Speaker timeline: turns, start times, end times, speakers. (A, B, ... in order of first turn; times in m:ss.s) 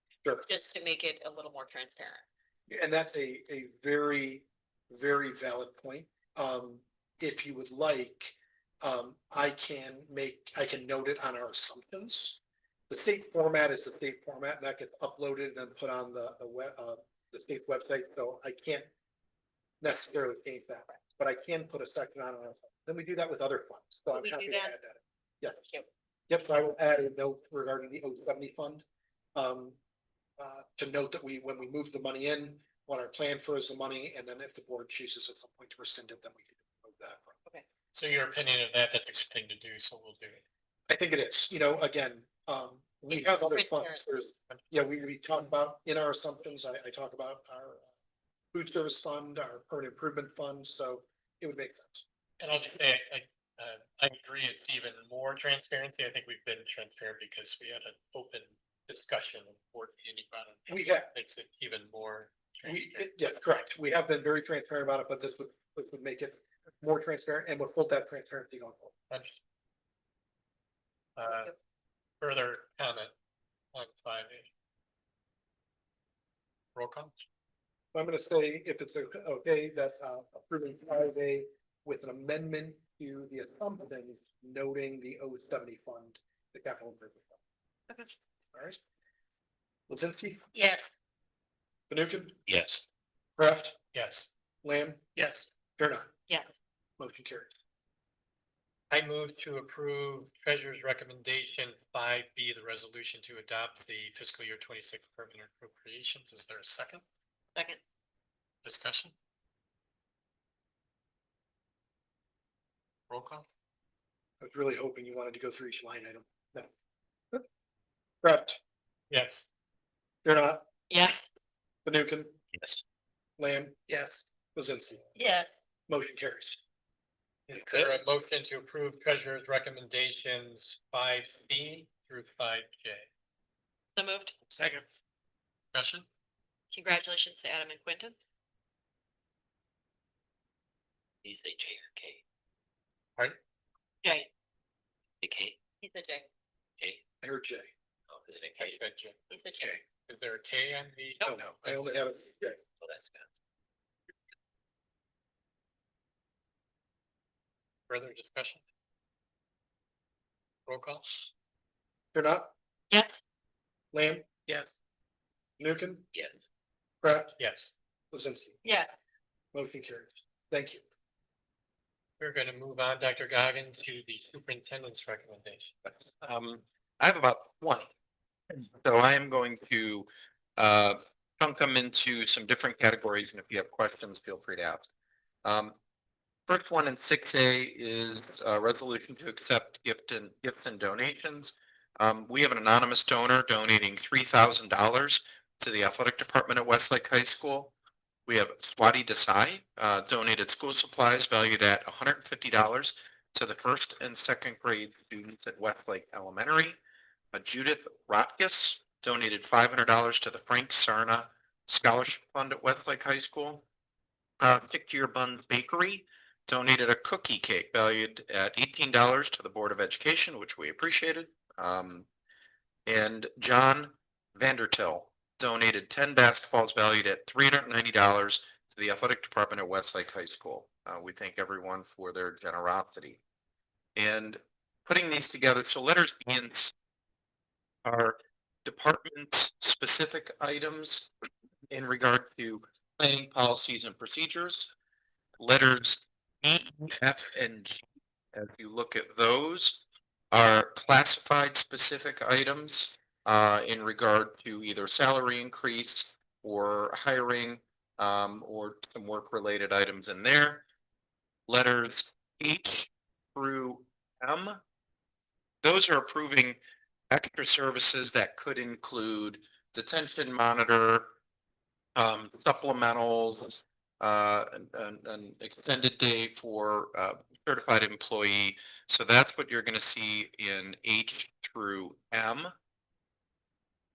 0:00.4-0:02.2 A
0:02.7-0:18.9 B
0:19.8-0:25.7 B
0:24.1-0:24.7 A
0:26.3-0:29.8 B
0:30.4-0:37.3 B
0:37.9-0:40.4 C
0:40.9-0:47.8 B
0:43.1-0:44.0 A
0:48.5-0:52.0 B
0:52.4-1:03.1 C
1:00.7-1:01.1 B
1:02.6-1:08.9 B
1:09.1-1:09.4 C
1:11.2-1:11.5 C
1:12.2-1:13.1 C
1:13.7-1:14.5 C
1:16.7-1:17.1 C
1:17.9-1:27.4 B
1:28.5-1:28.8 B
1:29.9-1:30.4 B
1:30.5-1:30.9 A
1:31.9-1:32.4 B
1:32.5-1:32.8 D
1:33.4-1:33.8 B
1:33.9-1:34.3 C
1:34.6-1:36.1 B
1:37.0-1:37.5 B
1:38.9-1:47.0 C
1:48.6-1:49.1 C
1:53.1-1:53.4 C
1:54.4-1:56.7 B
1:58.2-1:58.6 B
1:59.1-1:59.5 C
2:00.2-2:00.6 B
2:00.9-2:01.3 A
2:01.8-2:02.4 B
2:03.4-2:05.1 B
2:05.1-2:05.5 A
2:05.9-2:06.6 B
2:07.5-2:13.1 C
2:14.0-2:14.3 A
2:15.7-2:16.0 C
2:16.7-2:18.2 A
2:21.2-2:22.2 D
2:24.0-2:24.3 A
2:25.2-2:25.6 D
2:25.8-2:26.3 A
2:27.2-2:27.7 B
2:28.1-2:28.8 D
2:28.6-2:29.2 C
2:29.3-2:29.8 D
2:29.3-2:29.7 A
2:29.8-2:31.8 C
2:31.2-2:32.6 B
2:32.8-2:33.2 D
2:37.9-2:38.6 C
2:40.6-2:41.0 C
2:42.1-2:42.5 B
2:42.9-2:43.2 A
2:43.9-2:44.5 B
2:45.6-2:46.1 B
2:47.0-2:47.3 B
2:47.4-2:47.7 C
2:48.1-2:48.6 B
2:48.6-2:48.9 A
2:49.5-2:50.8 B
2:52.2-2:55.8 C
2:56.2-2:57.9 E
2:58.7-3:04.9 E
3:05.4-3:05.7 E
3:06.5-3:17.7 E
3:18.3-3:26.8 E
3:27.3-3:33.6 E
3:34.4-3:42.0 E
3:42.8-3:53.2 E
3:54.0-3:56.7 E
3:57.8-4:01.1 E
4:01.7-4:04.7 E
4:05.4-4:20.6 E
4:21.5-4:24.6 E
4:25.6-4:26.6 E
4:27.1-4:31.1 E
4:32.0-4:42.5 E